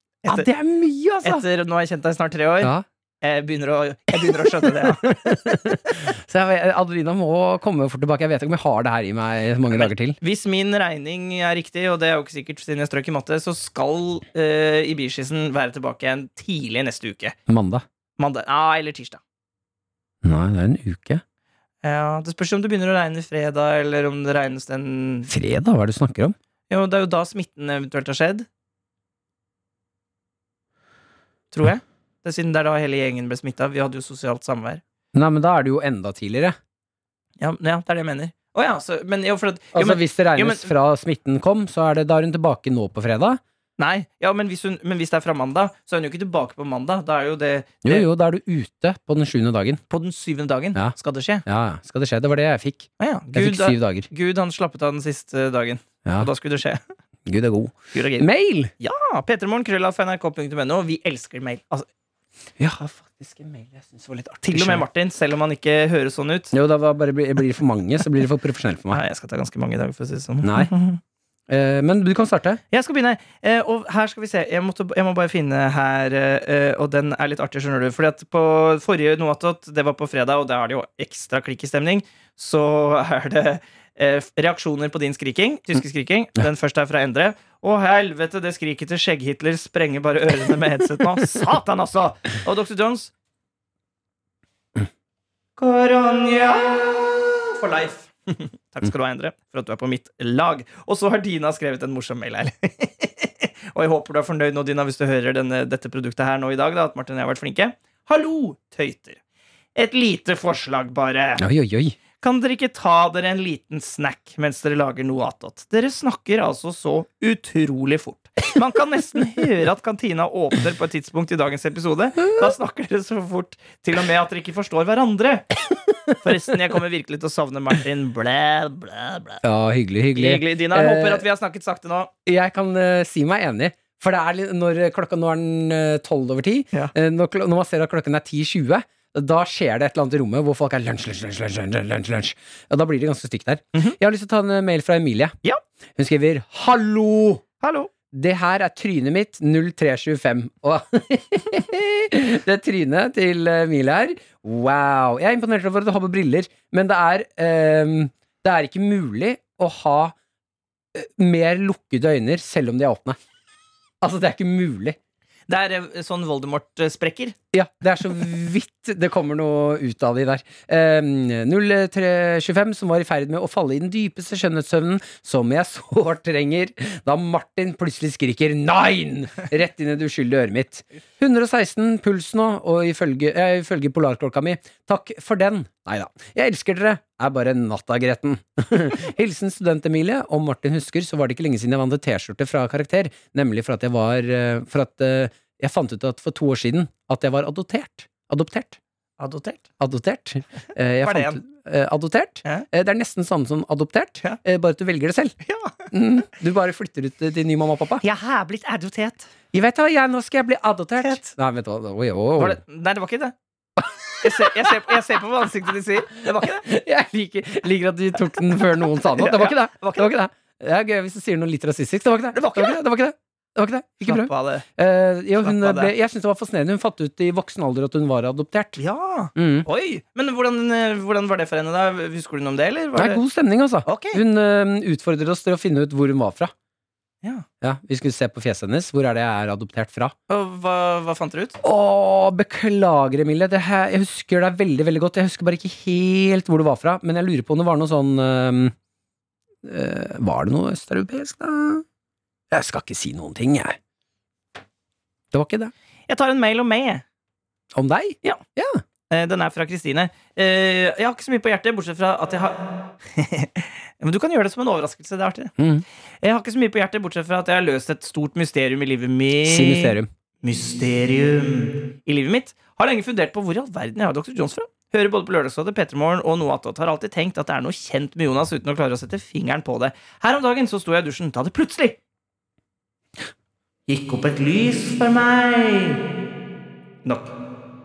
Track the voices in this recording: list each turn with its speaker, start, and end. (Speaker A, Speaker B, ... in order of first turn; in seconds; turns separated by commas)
Speaker A: 0.2-1.4, Speaker B: 1.2-5.8, Speaker A: 4.3-10.2, Speaker B: 9.7-17.4, Speaker A: 17.5-17.8, Speaker B: 18.2-19.2, Speaker A: 20.2-21.2, Speaker B: 21.8-25.3, Speaker A: 25.3-26.3, Speaker B: 26.7-28.5, Speaker B: 31.5-34.8, Speaker A: 35.1-36.5, Speaker B: 37.4-40.7, Speaker A: 39.7-43.4, Speaker B: 43.8-48.1, Speaker A: 47.8-49.8, Speaker B: 49.9-51.4, Speaker A: 50.7-54.1, Speaker B: 53.0-56.8, Speaker A: 57.2-58.7, Speaker B: 57.9-58.3, Speaker B: 58.8-61.9, Speaker A: 62.6-64.8, Speaker B: 64.4-66.5, Speaker A: 66.5-69.0, Speaker B: 68.9-71.0, Speaker A: 70.4-70.7, Speaker A: 71.5-72.6, Speaker B: 72.7-93.1, Speaker B: 95.6-109.2, Speaker B: 109.7-111.4, Speaker A: 111.4-112.0, Speaker B: 112.2-125.5, Speaker B: 126.1-129.4, Speaker A: 129.4-131.2, Speaker B: 130.1-132.1, Speaker A: 132.2-145.3, Speaker A: 146.0-147.4, Speaker B: 147.6-147.9, Speaker A: 148.1-160.1, Speaker A: 160.9-163.2, Speaker A: 164.0-165.0, Speaker B: 165.5-167.3, Speaker A: 167.5-198.8, Speaker B: 199.2-199.6, Speaker A: 199.8-205.3, Speaker B: 201.0-201.4, Speaker B: 205.4-205.8, Speaker A: 205.9-208.0, Speaker B: 208.0-209.3, Speaker A: 209.5-212.6, Speaker B: 211.0-211.3, Speaker B: 212.4-213.3, Speaker A: 213.8-214.9, Speaker B: 214.2-216.6, Speaker A: 216.2-228.8, Speaker B: 219.0-220.2, Speaker B: 222.3-222.8, Speaker B: 224.0-224.7, Speaker B: 225.4-225.9, Speaker B: 228.8-233.2, Speaker A: 229.3-229.7, Speaker A: 232.9-236.5, Speaker B: 233.8-234.2, Speaker A: 237.6-240.1, Speaker B: 240.3-241.6, Speaker A: 241.6-248.7, Speaker A: 249.6-251.8, Speaker A: 252.5-253.8, Speaker A: 255.3-255.7, Speaker B: 256.1-257.0, Speaker A: 257.7-258.8, Speaker B: 259.1-265.5, Speaker A: 265.6-265.8, Speaker B: 266.2-282.0, Speaker A: 269.4-270.1, Speaker B: 283.9-286.0, Speaker B: 287.0-287.3